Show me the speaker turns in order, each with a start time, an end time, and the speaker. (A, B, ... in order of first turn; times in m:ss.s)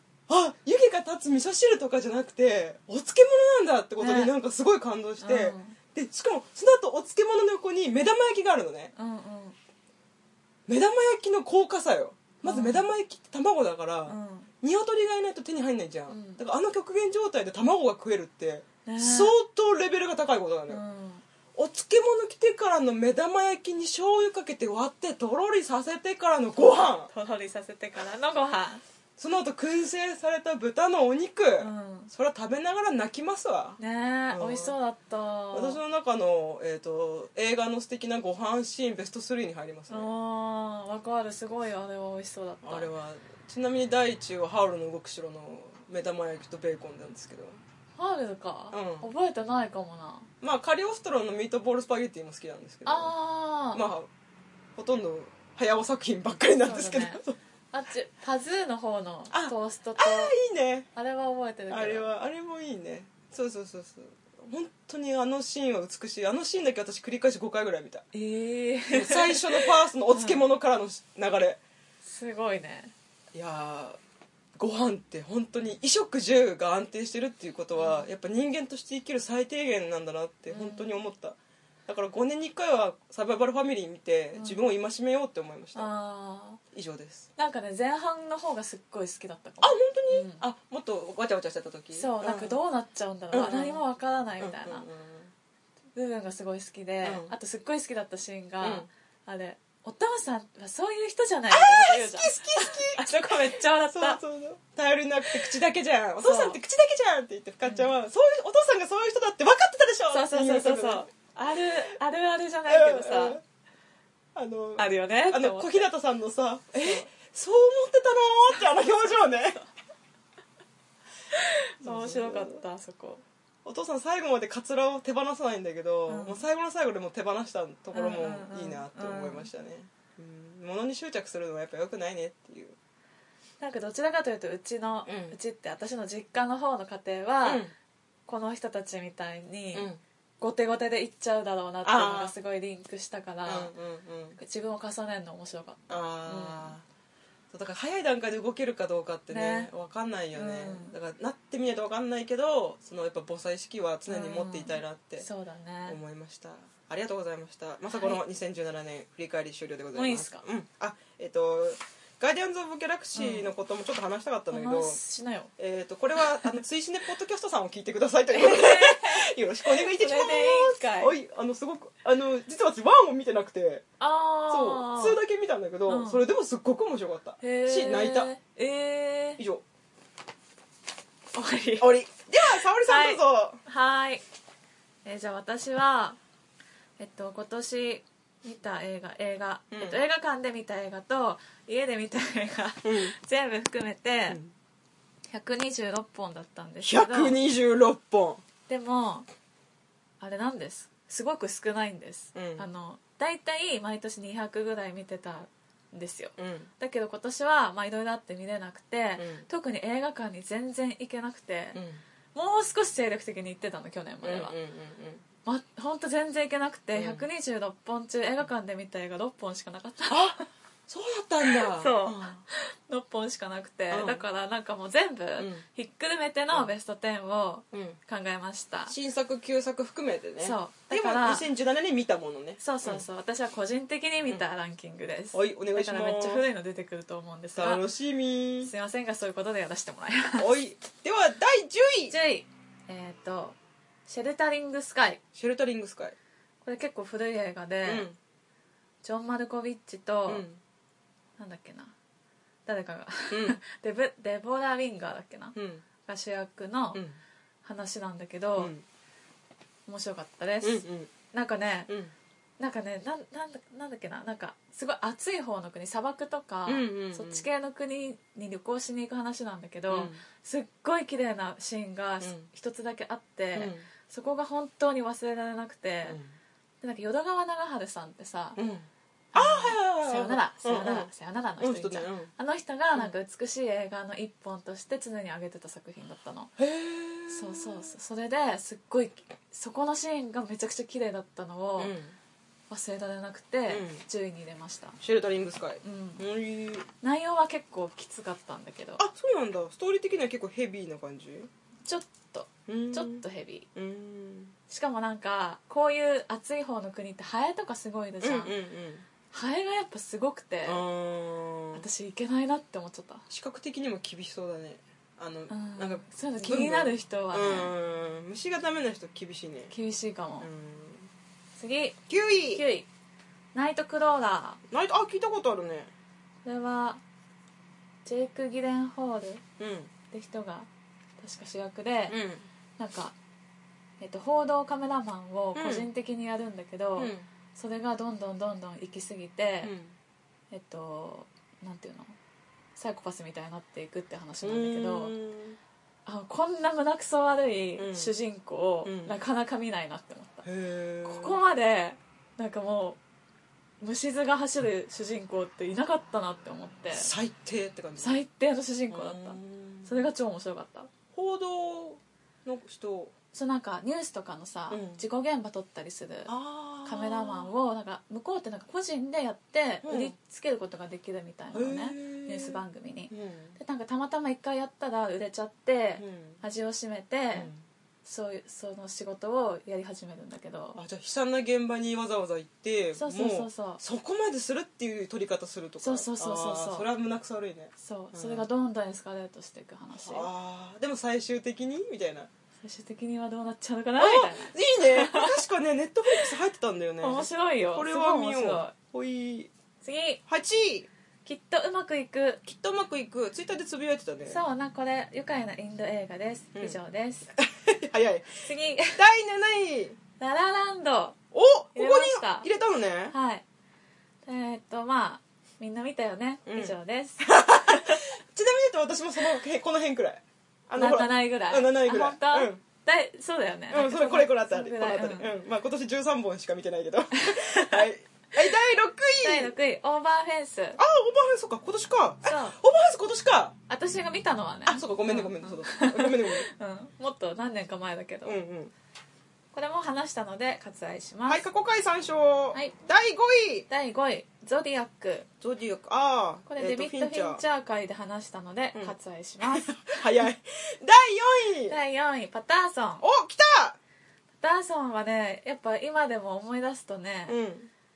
0:00.3-0:08.9 A
0:04.0-0:04.3 B
0:05.2-0:05.8 B
0:09.0-0:09.6 B
0:10.7-0:20.8 A
0:12.4-0:12.9 B
0:14.0-0:14.5 B
0:16.1-0:16.4 B
0:18.8-0:19.3 B
0:20.7-0:21.2 B
0:21.6-0:27.1 A
0:27.1-0:28.8 B
0:29.2-0:33.8 A
0:31.6-0:32.1 B
0:33.8-0:35.8 B
0:34.3-0:34.7 A
0:35.5-0:40.1 A
0:39.9-0:42.9 B
0:42.6-0:47.6 A
0:48.0-0:50.3 B
0:48.7-0:49.1 A
0:50.4-0:53.1 A
0:52.8-0:53.8 B
0:53.7-0:54.1 A
0:54.8-0:57.4 A
0:56.6-0:57.2 B
0:57.7-1:00.3 B
0:59.3-1:00.9 A
1:00.9-1:02.0 B
1:01.7-1:08.0 A
1:08.1-1:10.4 B
1:08.9-1:11.6 A
1:12.0-1:12.9 B
1:13.3-1:14.0 A
1:14.6-1:25.9 A
1:17.8-1:18.1 B
1:20.5-1:20.9 B
1:24.3-1:24.6 B
1:25.7-1:26.6 B
1:26.7-1:27.3 A
1:27.4-1:30.4 B
1:29.6-1:32.6 A
1:31.9-1:34.8 B
1:33.3-1:33.8 A
1:34.4-1:35.3 A
1:35.9-1:44.2 B
1:37.0-1:37.3 A
1:38.6-1:38.9 A
1:41.5-1:51.1 A
1:45.3-1:45.5 B
1:46.2-1:46.6 B
1:47.6-1:47.9 B
1:50.1-1:53.4 B
1:52.7-1:53.4 A
1:54.3-1:59.6 A
1:54.8-1:55.9 B
1:56.8-1:57.1 B
2:01.3-2:03.2 B
2:01.8-2:02.6 A
2:03.6-2:12.8 A
2:06.1-2:06.4 B
2:07.9-2:09.5 B
2:13.6-2:17.6 B
2:15.0-2:15.4 A
2:17.4-2:17.7 A
2:18.3-2:19.9 B
2:19.7-2:20.0 A
2:20.4-2:23.7 B
2:21.8-2:22.3 A
2:23.4-2:24.4 A
2:24.4-2:26.7 B
2:25.9-2:26.8 A
2:27.5-2:35.3 A
2:29.3-2:29.7 B
2:30.3-2:30.9 B
2:34.1-2:36.0 B
2:35.8-2:45.0 A
2:37.9-2:38.2 B
2:39.9-2:40.4 B
2:43.2-2:43.5 B
2:44.5-2:45.5 B
2:45.6-2:53.8 A
2:48.3-2:51.1 B
2:54.0-2:55.2 B
2:54.5-2:58.3 A
2:55.9-2:56.2 B
2:57.4-2:59.4 B
2:59.4-2:59.6 A
3:01.3-3:01.9 B
3:01.8-3:03.6 A
3:02.5-3:04.2 B
3:05.0-3:06.2 B
3:07.0-3:14.4 B
3:09.7-3:10.0 A
3:12.8-3:13.1 A
3:15.3-3:17.4 B
3:16.8-3:18.4 A
3:18.7-3:19.2 B
3:20.2-3:31.8 B
3:22.3-3:22.6 A
3:26.4-3:26.7 A
3:29.2-3:29.5 A
3:31.7-3:32.0 A
3:32.3-3:34.5 B
3:34.2-3:35.2 A
3:35.4-3:40.4 B
3:36.9-3:37.2 A
3:40.1-3:42.4 A
3:41.4-3:48.9 B
3:43.9-3:44.2 A
3:45.4-3:45.6 A
3:47.7-3:48.0 A
3:48.9-3:53.0 A
3:50.4-3:51.5 B
3:52.6-3:57.8 B
3:55.3-3:56.4 A
3:57.6-3:58.7 A
3:58.6-4:00.5 B
4:00.4-4:02.1 A
4:02.1-4:05.2 B
4:05.3-4:06.2 A
4:06.6-4:08.1 B
4:07.8-4:08.2 A
4:09.0-4:10.4 B
4:10.3-4:10.6 A
4:11.4-4:11.9 B
4:12.6-4:17.0 B
4:13.3-4:13.6 A
4:15.5-4:15.8 A
4:17.6-4:18.7 B
4:18.6-4:18.8 A
4:19.8-4:21.9 B
4:20.6-4:21.1 A
4:21.9-4:22.1 A
4:22.6-4:36.2 B
4:26.6-4:27.4 A
4:29.9-4:30.2 A
4:32.2-4:32.5 A
4:33.5-4:33.9 A
4:36.0-4:36.3 A
4:36.8-4:38.6 B
4:38.6-4:42.3 A
4:39.3-4:46.5 B
4:46.6-4:47.9 A
4:47.3-4:51.9 B
4:51.8-4:52.2 A
4:52.7-4:55.0 B
4:53.7-4:54.0 A
4:55.0-4:56.9 A
4:55.8-4:56.2 B
4:57.0-4:59.0 B
4:59.0-5:01.5 A
5:01.8-5:03.7 B
5:02.7-5:04.5 A
5:04.7-5:08.5 B
5:08.2-5:09.1 A
5:09.3-5:10.8 B
5:10.6-5:11.8 A
5:11.7-5:13.2 B
5:13.3-5:19.7 A
5:15.5-5:17.7 B
5:19.7-5:20.5 B
5:20.4-5:21.1 A
5:21.6-5:22.0 B
5:22.1-5:22.6 A
5:22.5-5:22.9 B
5:23.5-5:24.6 B
5:24.7-5:25.9 A
5:26.4-5:27.0 B
5:28.0-5:29.4 B
5:29.6-5:29.9 A
5:30.1-5:30.7 B
5:31.2-5:32.2 B
5:32.1-5:32.4 A
5:32.8-5:33.2 B
5:34.0-5:39.7 B
5:35.5-5:35.9 A
5:37.0-5:37.2 A
5:39.6-5:40.0 A
5:40.5-5:42.1 B
5:42.8-5:45.1 B
5:44.4-5:45.6 A
5:46.0-5:50.4 B
5:47.8-5:48.1 A
5:48.8-5:49.2 A
5:50.4-5:51.4 A
5:51.0-5:53.0 B
5:53.8-5:57.1 B
5:56.9-5:58.2 A
5:58.0-6:00.9 B
5:58.9-6:00.1 A
6:01.1-6:03.1 A
6:03.3-6:06.3 B
6:04.7-6:05.0 A
6:06.3-6:07.5 A
6:06.8-6:17.5 B
6:09.8-6:10.1 A
6:11.5-6:13.6 A
6:16.0-6:16.4 A
6:17.3-6:17.6 A
6:18.0-6:20.8 B
6:20.7-6:28.4 A
6:22.9-6:23.8 B
6:25.8-6:26.8 B
6:27.8-6:30.3 B
6:29.9-6:32.3 A
6:32.6-6:35.4 B
6:34.0-6:39.5 A
6:37.0-6:38.7 B
6:39.8-6:40.2 B
6:40.3-6:40.9 A
6:41.2-6:42.4 B
6:42.4-6:44.4 A
6:44.3-6:47.3 B
6:47.4-6:48.4 A
6:48.4-6:49.0 B
6:48.9-6:50.0 A
6:50.2-6:51.2 B
6:51.3-6:53.1 A
6:51.7-6:52.5 B
6:53.1-6:53.4 B
6:54.2-6:58.0 B
6:56.4-7:02.6 A
7:00.8-7:05.3 B
7:03.7-7:09.5 A
7:07.2-7:07.9 B
7:09.2-7:10.8 B
7:10.8-7:13.5 A
7:12.2-7:12.6 B
7:13.7-7:18.4 B
7:14.7-7:16.5 A
7:18.2-7:18.7 A
7:19.5-7:21.4 B
7:21.3-7:23.6 A
7:23.7-7:25.3 B
7:25.4-7:27.4 A
7:26.5-7:29.9 B
7:29.5-7:31.8 A
7:31.7-7:33.0 B
7:33.0-7:33.8 A
7:34.4-7:37.4 B
7:37.3-7:37.7 A